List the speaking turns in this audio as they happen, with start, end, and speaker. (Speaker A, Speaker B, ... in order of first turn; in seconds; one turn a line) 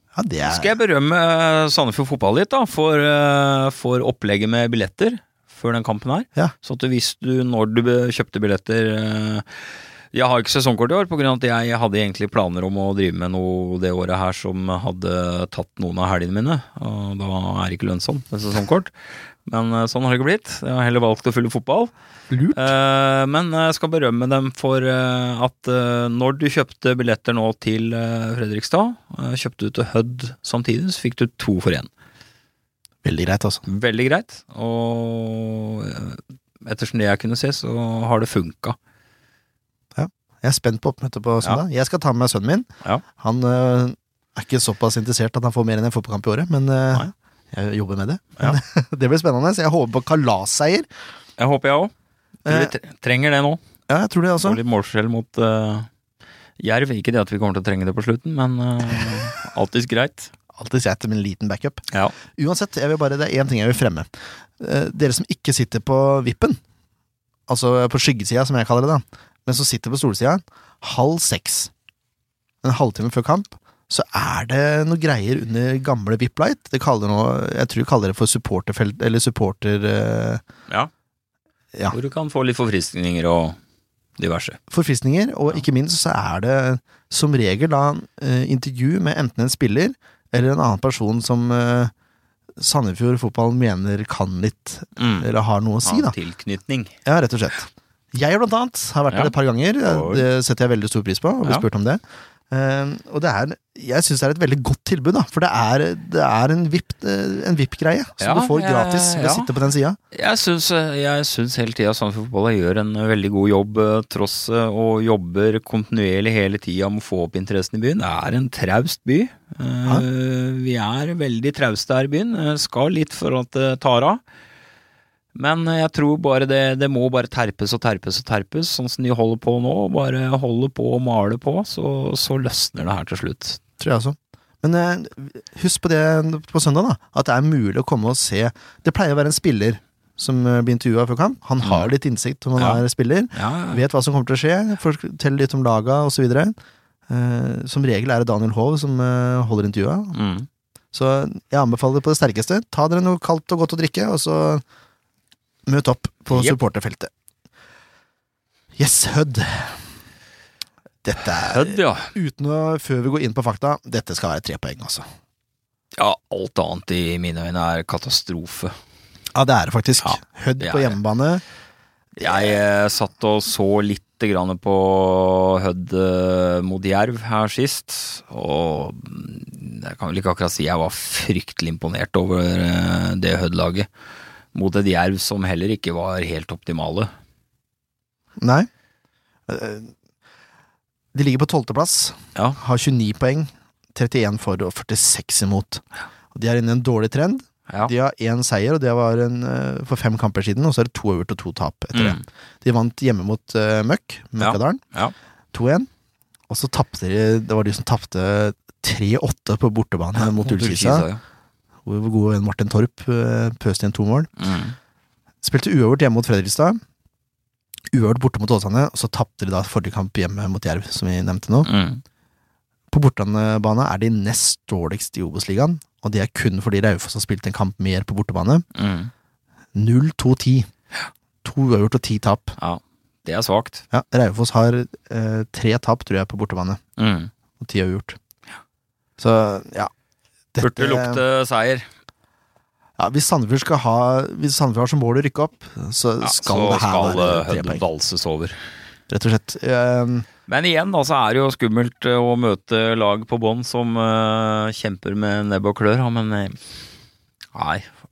Speaker A: 0.1-0.7
Speaker B: 0.5-9.6
Speaker B: 10.1-18.9
Speaker B: 19.4-21.9
Speaker A: 22.3-22.7
Speaker B: 22.5-31.9
Speaker A: 33.0-33.6
Speaker B: 33.6-38.8
Speaker A: 40.0-50.9
Speaker B: 51.4-51.9
Speaker A: 52.5-52.7
Speaker B: 52.5-53.6
Speaker A: 53.9-54.6
Speaker B: 54.4-55.9
Speaker B: 56.6-60.3
Speaker A: 60.5-61.8
Speaker A: 62.4-64.1
Speaker A: 64.6-66.6
Speaker A: 67.5-71.7
Speaker A: 72.6-80.4
Speaker B: 81.9-83.6
Speaker B: 84.2-84.6
Speaker A: 84.7-91.9
Speaker A: 92.6-96.1
Speaker B: 95.0-95.3
Speaker B: 95.8-96.9
Speaker A: 97.0-110.0
Speaker B: 99.8-100.2
Speaker B: 108.2-109.5
Speaker B: 110.1-124.2
Speaker B: 125.3-133.6
Speaker A: 133.8-146.5
Speaker B: 141.6-141.9
Speaker B: 142.6-142.8
Speaker B: 143.3-143.8
Speaker A: 147.1-150.2
Speaker B: 150.1-150.5
Speaker A: 150.9-154.6
Speaker A: 155.7-157.1
Speaker B: 156.3-156.6
Speaker A: 158.8-159.8
Speaker A: 161.0-165.0
Speaker B: 161.4-162.1
Speaker B: 165.9-168.7
Speaker A: 169.3-171.4
Speaker B: 170.0-171.0
Speaker B: 172.2-183.9
Speaker B: 184.5-187.1
Speaker A: 188.4-188.7
Speaker A: 189.5-189.9
Speaker A: 191.1-195.8
Speaker A: 196.3-204.8
Speaker B: 201.9-202.2
Speaker B: 204.4-205.1
Speaker A: 205.5-205.9
Speaker A: 206.5-211.1
Speaker B: 210.1-211.2
Speaker A: 211.8-214.3
Speaker B: 214.4-214.8
Speaker A: 215.4-216.8
Speaker A: 217.9-221.7
Speaker B: 221.6-222.0
Speaker A: 222.9-228.6
Speaker B: 228.7-229.1
Speaker A: 229.7-230.7
Speaker A: 231.4-232.6
Speaker B: 232.6-233.8
Speaker A: 233.9-236.8
Speaker B: 237.0-237.3
Speaker A: 237.6-238.2
Speaker A: 239.2-239.9
Speaker A: 240.5-241.2
Speaker B: 240.6-241.8
Speaker A: 243.0-247.8
Speaker B: 246.2-248.6
Speaker A: 249.1-250.3
Speaker B: 250.5-256.6
Speaker B: 257.5-257.9